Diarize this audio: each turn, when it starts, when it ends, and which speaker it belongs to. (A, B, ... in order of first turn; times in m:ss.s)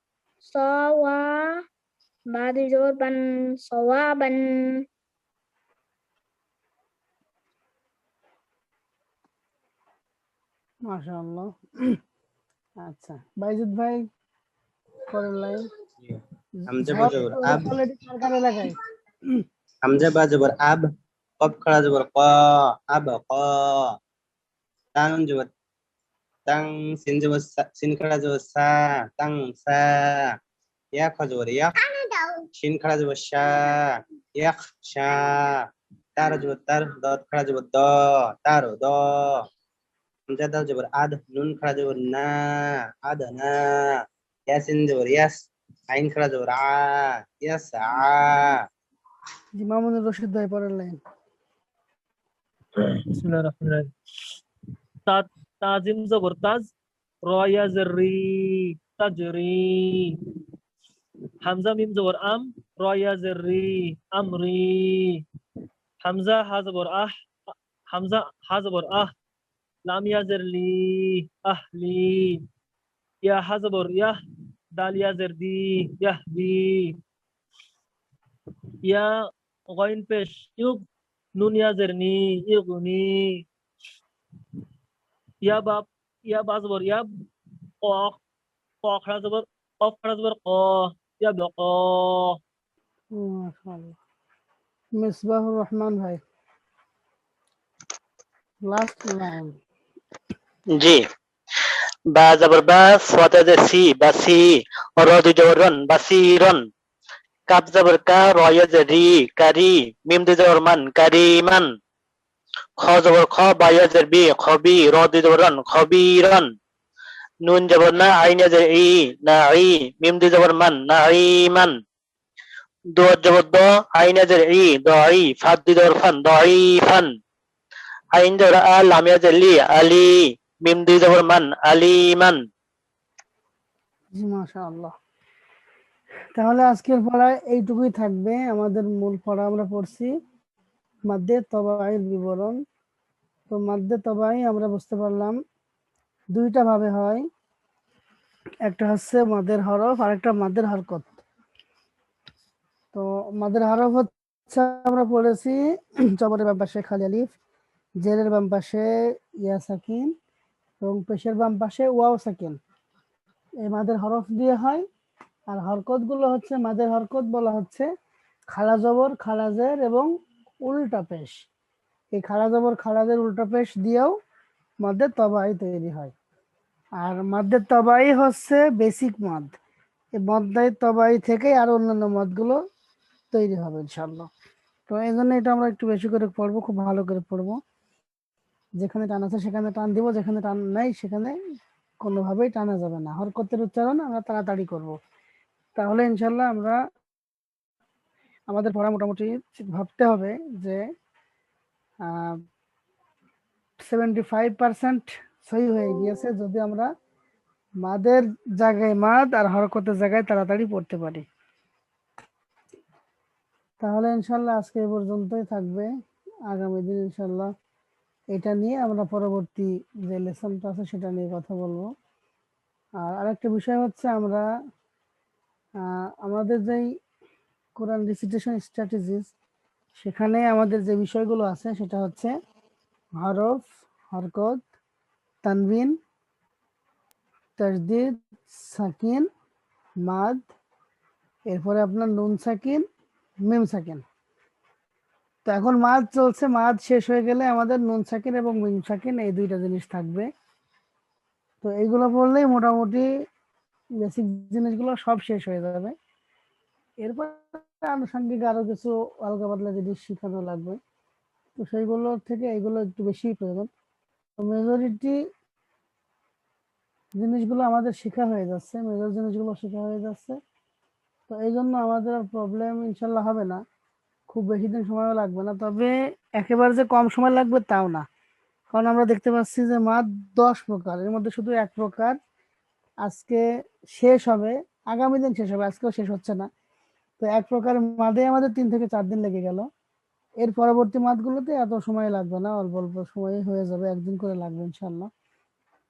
0:00.4-0:01.6 A
0:02.3-0:04.4 A
0:10.9-0:12.0 B
0:12.8-0:14.0 B
0:15.1-0:15.6 B
0:16.7-0:17.7 C
0:16.8-0:18.8 B
0:19.8-0:20.8 C
0:21.4-0:22.3 C
0:22.9-0:23.9 C
0:25.0-0:25.5 C
0:26.5-0:30.2 C
0:30.9-0:31.8 C
0:32.0-0:32.4 A
0:32.6-0:35.6 C
0:36.2-0:39.4 C
0:40.3-0:48.6 C
0:49.6-0:51.0 B
0:52.9-0:53.9 D
0:55.1-0:56.7 D
0:57.3-1:00.1 D
1:01.4-1:05.2 D
1:06.0-1:07.1 D
1:07.9-1:09.1 D
1:09.9-1:12.4 D
1:13.2-1:14.2 D
1:14.8-1:17.0 D
1:19.7-1:20.9 D
1:21.4-1:23.3 D
1:25.5-1:27.1 D
1:27.8-1:28.2 D
1:28.8-1:32.4 D
1:33.1-1:34.0 B
1:35.0-1:36.2 B
1:38.7-1:39.5 B
1:40.8-1:41.0 E
1:42.1-1:46.6 E
1:47.5-1:51.7 E
1:52.8-1:56.5 E
1:57.4-2:01.8 E
2:03.0-2:07.1 E
2:08.2-2:12.4 E
2:14.1-2:14.9 B
2:16.4-2:20.1 B
2:21.1-2:22.6 B
2:23.5-2:25.4 B
2:26.3-2:27.2 B
2:28.7-2:31.2 B
2:32.9-2:35.6 B
2:36.2-2:37.3 B
2:38.0-2:38.9 B
2:39.4-2:40.1 B
2:40.8-2:42.6 B
2:43.6-2:44.8 B
2:45.5-2:47.9 B
2:48.5-2:50.1 B
2:50.6-2:51.3 B
2:52.2-2:54.1 B
2:54.8-2:56.1 B
2:57.0-2:59.5 B
3:00.2-3:02.6 B
3:03.3-3:04.3 B
3:04.9-3:07.6 B
3:08.8-3:11.4 B
3:12.0-3:15.0 B
3:15.8-3:16.8 B
3:18.5-3:20.8 B
3:22.1-3:22.4 B
3:23.8-3:26.9 B
3:27.8-3:31.2 B
3:33.8-3:35.9 B
3:36.5-3:37.5 B
3:38.3-3:41.9 B
3:43.0-3:44.4 B
3:46.2-3:46.8 B
3:47.8-3:49.3 B
3:50.0-3:52.3 B
3:53.2-3:54.6 B
3:55.4-3:55.9 B
3:57.6-3:59.3 B
4:00.1-4:00.4 B
4:01.5-4:02.8 B
4:03.5-4:04.0 B
4:05.5-4:10.3 B
4:11.6-4:13.1 B
4:14.0-4:15.9 B
4:17.0-4:20.8 B
4:21.6-4:23.7 B
4:24.4-4:25.2 B
4:27.2-4:30.4 B
4:31.3-4:33.6 B
4:34.3-4:38.0 B
4:38.7-4:42.2 B
4:43.0-4:46.5 B
4:47.2-4:49.7 B
4:50.4-4:55.1 B